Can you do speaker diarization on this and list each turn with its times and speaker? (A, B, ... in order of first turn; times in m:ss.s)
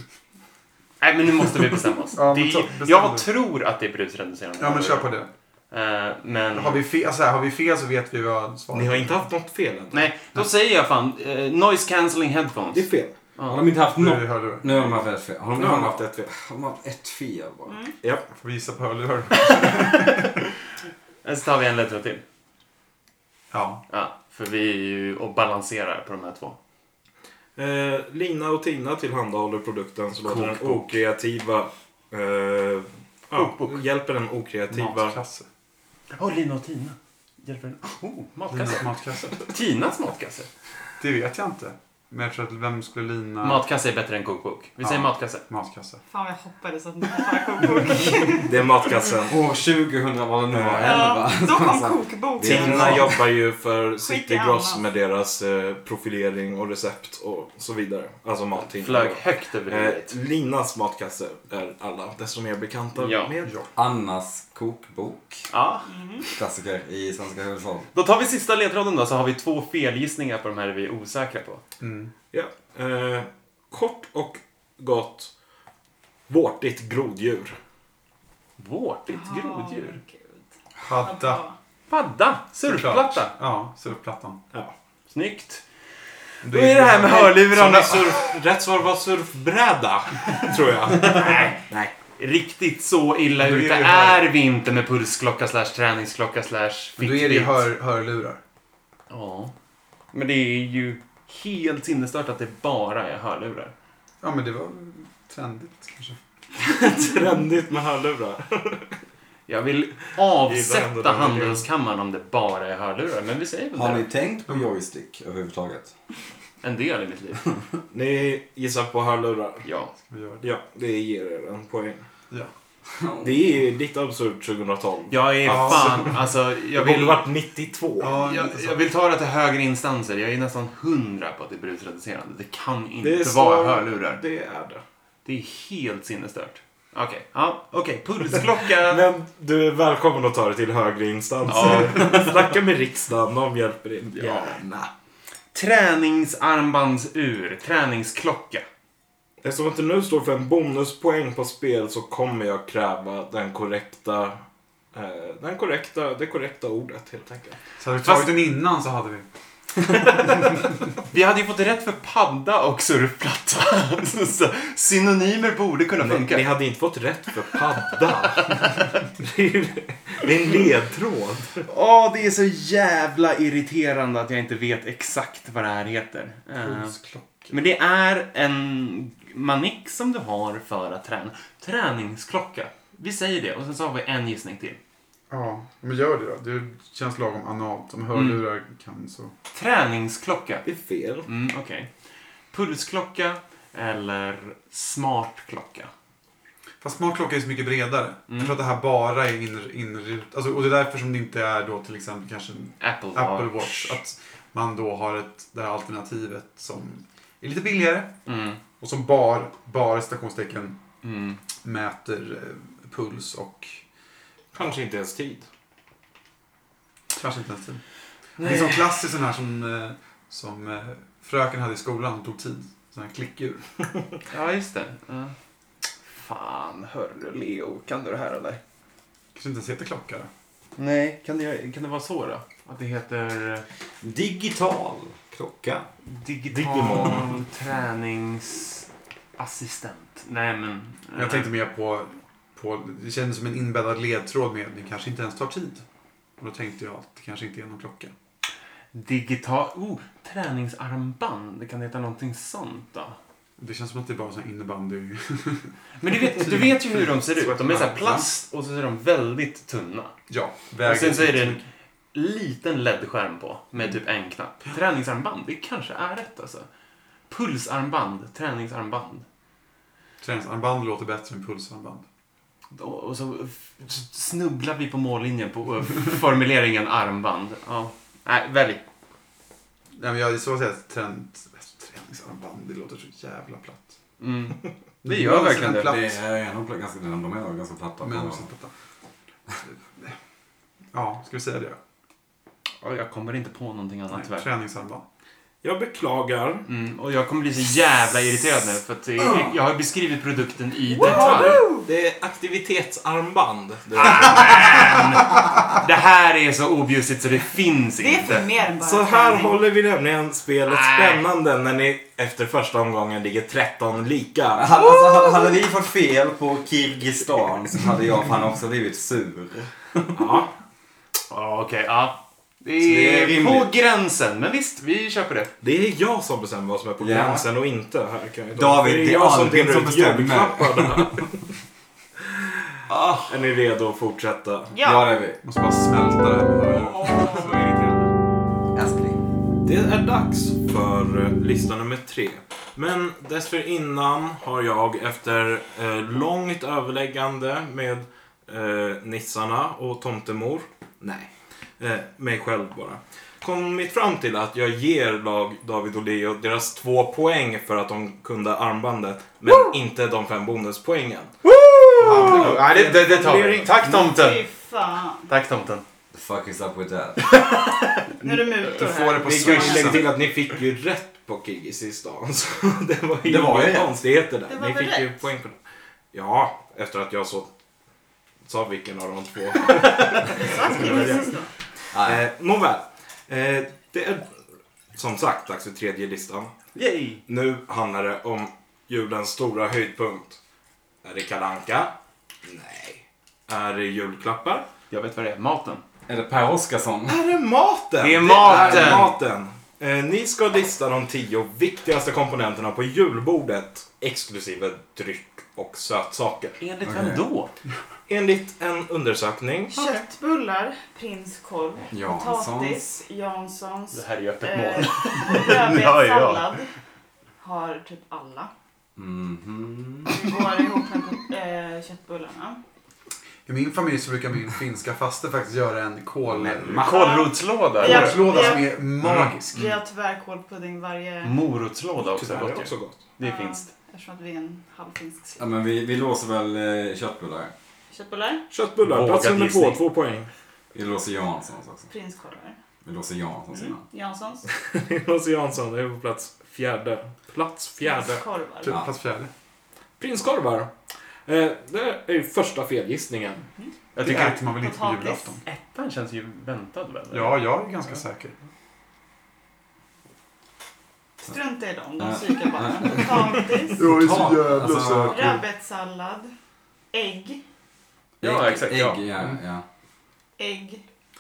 0:01.0-0:05.1 A
0:02.1-0:03.3 B
0:04.6-0:05.3 B
0:05.7-0:06.8 A
0:06.5-0:09.2 B
0:08.7-0:10.1 C
0:09.9-0:13.6 A
0:12.7-0:13.1 C
0:13.5-0:17.8 D
0:13.9-0:14.7 B
0:15.5-0:16.3 C
0:17.7-0:17.9 E
0:18.0-0:18.3 C
0:18.3-0:20.3 B
0:19.8-0:20.2 A
0:21.2-0:22.2 A
0:23.5-0:23.8 B
0:23.9-0:26.6 A
0:27.6-0:35.2 C
0:30.2-0:31.0 A
0:33.3-0:33.8 A
0:34.7-0:35.4 B
0:36.1-0:40.5 A
0:38.5-0:39.4 B
0:41.0-0:43.6 B
0:43.4-0:45.4 A
0:44.8-0:46.0 B
0:46.1-0:48.5 E
0:48.3-0:49.4 C
0:49.3-0:53.2 D
0:50.5-0:51.0 C
0:50.8-0:53.2 E
0:52.4-1:03.5 C
0:54.0-0:54.8 E
0:58.6-1:00.1 A
1:02.9-1:03.3 A
1:03.4-1:03.7 B
1:03.7-1:05.5 D
1:05.5-1:05.9 A
1:05.9-1:06.2 E
1:06.4-1:07.9 D
1:07.9-1:11.6 A
1:11.8-1:12.1 B
1:12.3-1:15.3 C
1:16.3-1:17.6 C
1:18.6-1:20.0 A
1:19.1-1:20.4 E
1:20.8-1:21.4 B
1:21.0-1:21.5 E
1:21.9-1:23.3 A
1:22.6-1:24.4 B
1:25.1-1:25.6 A
1:26.4-1:27.3 B
1:26.4-1:28.4 A
1:26.8-1:31.9 C
1:31.0-1:31.6 A
1:32.1-1:37.7 A
1:33.4-1:34.2 B
1:37.0-1:38.4 B
1:39.1-1:39.5 A
1:40.1-1:43.7 A
1:44.2-1:46.2 B
1:46.6-1:48.9 C
1:49.5-1:54.0 A
1:50.4-1:51.6 C
1:53.7-1:55.9 D
1:56.6-1:57.6 A
1:57.9-1:59.6 C
1:59.6-1:59.9 A
2:00.1-2:00.4 B
2:00.4-2:02.0 C
2:03.0-2:03.4 D
2:03.2-2:06.1 C
2:05.1-2:07.3 A
2:05.4-2:06.2 B
2:06.8-2:08.2 C
2:08.0-2:08.8 B
2:08.0-2:14.2 A
2:13.0-2:14.8 C
2:15.2-2:19.0 A
2:18.8-2:24.9 C
2:21.5-2:22.3 A
2:24.1-2:24.6 A
2:25.5-2:28.6 A
2:29.4-2:34.4 C
2:34.9-2:37.6 C
2:37.8-2:39.3 B
2:38.0-2:38.3 A
2:39.9-2:40.4 A
2:41.0-2:46.5 A
2:46.0-2:51.6 C
2:51.6-2:56.9 A
2:56.6-2:57.6 B
2:57.5-3:04.8 A
3:05.3-3:09.3 B
3:08.1-3:08.4 A
3:09.5-3:10.6 A
3:10.6-3:11.3 C
3:11.2-3:11.9 A
3:12.5-3:15.9 A
3:16.8-3:28.1 B
3:18.3-3:18.6 A
3:22.8-3:24.0 A
3:28.3-3:28.6 A
3:28.8-3:30.8 B
3:31.0-3:31.4 A
3:31.6-3:33.8 B
3:34.5-3:35.4 C
3:37.1-3:37.8 B
3:38.4-3:38.9 A
3:38.4-3:43.7 B
3:44.3-3:45.3 A
3:46.1-3:48.6 A
3:49.3-3:50.3 B
3:50.8-3:53.6 A
3:54.0-3:55.9 D
3:56.0-4:01.5 A
3:56.5-3:57.4 C
4:01.1-4:05.8 B
4:06.4-4:08.1 B
4:08.9-4:13.2 A
4:13.6-4:18.2 B
4:16.0-4:20.1 A
4:20.3-4:21.6 B
4:20.8-4:21.6 A
4:22.1-4:26.7 A
4:27.3-4:29.2 A
4:30.2-4:32.0 B
4:32.7-4:38.8 A
4:39.9-4:43.9 B
4:44.2-4:46.1 A
4:45.0-4:46.1 B
4:45.9-4:48.5 D
4:48.0-4:48.7 B
4:50.9-4:51.8 B
4:52.8-4:54.5 A
4:54.1-4:55.0 B
4:55.6-4:56.7 C
4:56.7-5:01.6 A
4:59.2-4:59.5 D
5:00.9-5:01.9 E
5:01.0-5:05.0 C
5:04.0-5:08.5 A
5:08.0-5:09.6 E
5:08.8-5:14.8 C
5:10.7-5:11.3 A
5:14.5-5:20.4 D
5:20.1-5:20.5 C
5:21.3-5:25.5 A
5:22.8-5:23.7 D
5:25.6-5:31.4 C
5:27.0-5:27.4 D
5:28.5-5:31.2 D
5:33.2-5:34.7 C
5:34.7-5:35.1 E
5:34.8-5:35.4 D
5:35.4-5:37.6 B
5:36.7-5:38.1 A
5:38.7-5:39.2 D
5:39.6-6:01.3 C
6:01.4-6:04.4 A
6:02.0-6:03.7 C
6:02.0-6:02.5 B
6:03.8-6:05.3 E
6:05.3-6:05.8 A
6:06.1-6:07.4 D
6:08.2-6:10.1 E
6:08.7-6:10.1 B
6:09.2-6:15.6 C
6:13.2-6:14.0 D
6:14.5-6:15.1 E
6:16.1-6:17.5 C
6:18.4-6:21.3 C
6:20.2-6:21.5 E
6:21.9-6:22.2 D
6:21.9-6:24.3 C
6:24.9-6:26.5 C
6:26.7-6:27.2 A
6:27.3-6:30.4 C
6:31.0-6:31.9 C
6:32.4-6:34.7 C
6:34.9-6:35.8 A
6:36.1-6:37.2 D
6:37.1-6:46.6 C
6:38.0-6:39.1 A
6:38.4-6:39.1 D
6:46.6-6:47.5 A
6:46.8-6:47.2 D
6:48.1-6:49.7 C
6:49.7-6:56.7 E
6:49.8-6:50.0 A
6:51.9-6:52.8 D
6:53.9-6:56.5 A
6:57.4-6:58.5 E
6:59.0-7:00.3 D
7:00.1-7:02.6 E
7:03.4-7:07.1 B
7:06.2-7:06.8 D
7:06.8-7:08.6 A
7:06.8-7:08.8 E
7:07.8-7:09.6 B
7:09.5-7:11.4 E
7:11.2-7:13.7 A
7:12.0-7:13.0 C
7:13.2-7:15.5 E
7:15.4-7:17.5 D
7:17.9-7:18.4 E
7:18.5-7:20.3 C
7:18.8-7:19.8 A
7:20.7-7:21.9 D
7:21.9-7:22.6 E
7:22.8-7:23.8 D
7:23.5-7:24.4 E
7:24.5-7:28.2 C
7:27.8-7:28.8 E
7:28.6-7:29.3 B
7:30.0-7:30.7 C
7:31.2-7:33.4 C
7:33.9-7:34.5 A
7:34.0-7:35.4 B
7:34.4-7:35.4 E
7:35.4-7:38.0 A
7:37.1-7:38.3 B
7:41.2-7:43.8 E
7:42.0-7:45.3 D
7:43.8-7:45.4 B
7:45.0-7:46.3 E
7:46.9-7:47.4 E
7:48.2-7:49.6 D
7:48.2-7:49.0 A
7:50.4-7:50.8 E